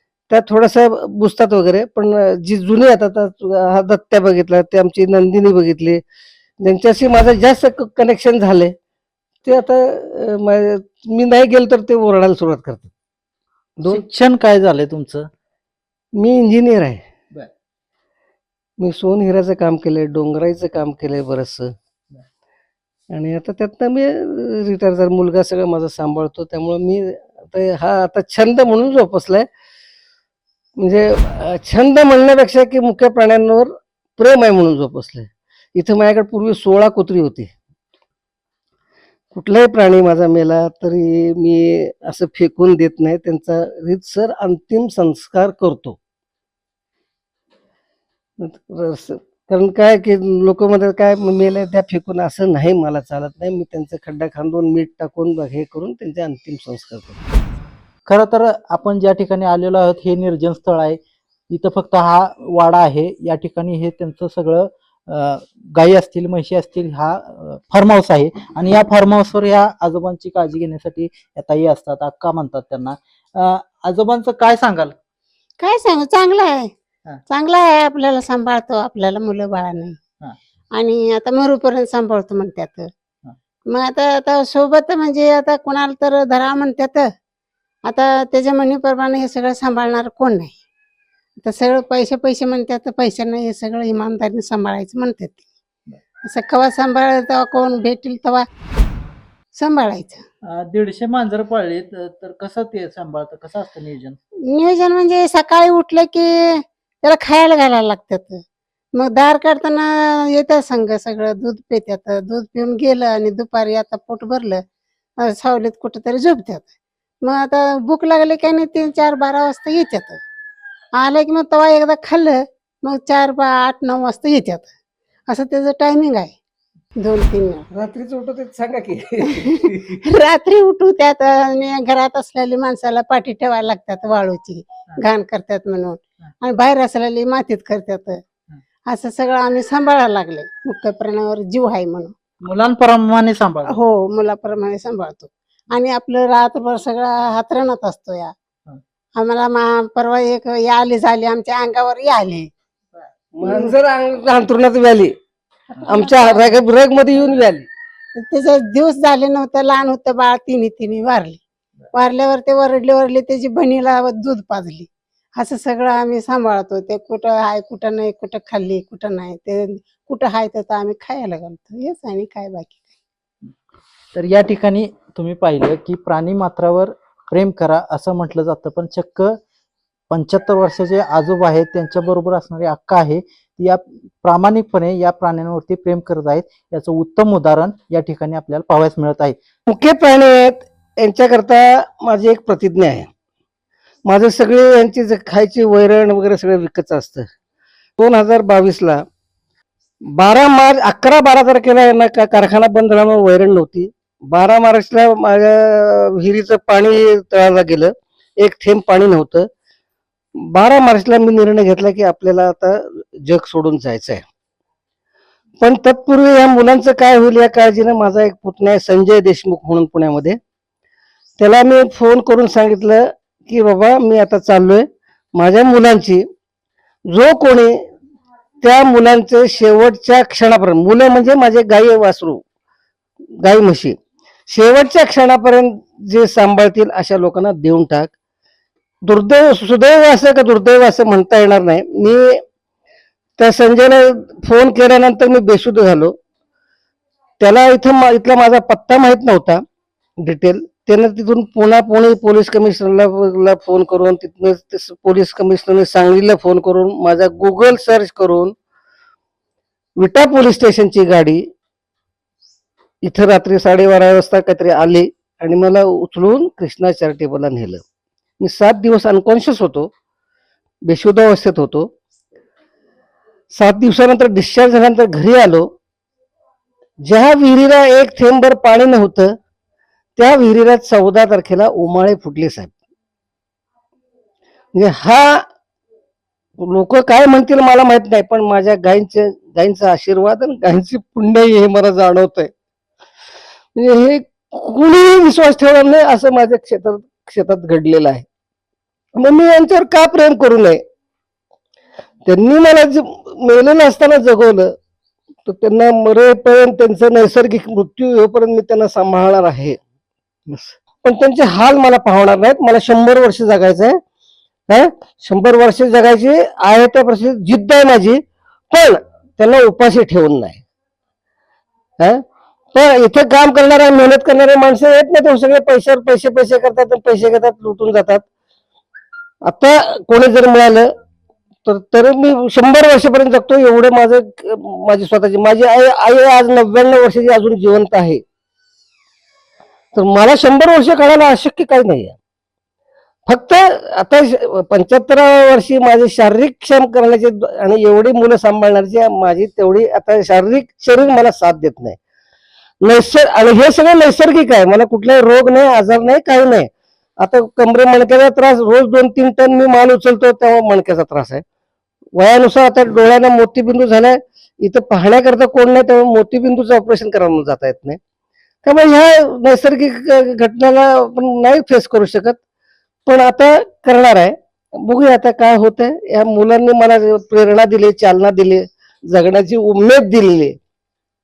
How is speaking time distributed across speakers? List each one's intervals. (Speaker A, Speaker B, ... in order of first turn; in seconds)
Speaker A: 0.3-6.0, 6.6-8.7, 9.4-12.9, 16.1-17.0, 18.8-21.7, 23.1-29.5, 30.8-37.5, 39.3-46.0, 48.4-57.2, 127.7-130.0, 153.4-155.2, 155.8-157.7, 189.7-193.1, 194.1-197.3, 198.0-199.0, 200.1-209.5, 210.4-214.2, 215.6-220.4, 221.4-226.2, 227.1-227.7, 228.6-232.4, 233.4-234.0, 234.5-238.1, 239.1-242.4, 243.4-246.1, 247.4-249.6, 250.2-258.5, 260.0-261.4, 263.0-267.8, 268.4-269.9, 270.9-271.9, 273.5-275.7, 277.0-279.3, 280.2-282.7, 284.8-285.4, 286.6-292.5, 293.8-298.2, 299.2-300.8, 302.3-304.7, 305.5-309.8, 310.5-314.0, 314.7-320.6, 322.8-328.2, 329.4-330.9, 331.6-338.2, 339.9-342.2, 343.3-352.0, 352.8-356.7, 357.2-361.4, 362.2-368.0, 368.6-372.4, 373.1-380.6
Speaker B: 13.9-15.3, 58.1-61.0, 61.5-74.9, 100.5-104.2, 142.4-143.8, 174.1-179.4, 180.1-189.4
Speaker C: 75.6-76.7, 77.3-80.0, 80.8-82.9, 83.7-87.1, 87.8-90.6, 91.4-95.4, 96.2-98.5, 99.5-100.2, 104.5-108.4, 108.9-114.6, 115.2-116.7, 117.2-120.2, 121.0-124.7, 125.3-126.3, 127.0-127.7, 129.4-138.2, 138.9-142.1, 143.7-148.3, 149.2-152.5, 153.4-153.7, 155.9-156.6, 158.2-161.4, 161.9-172.9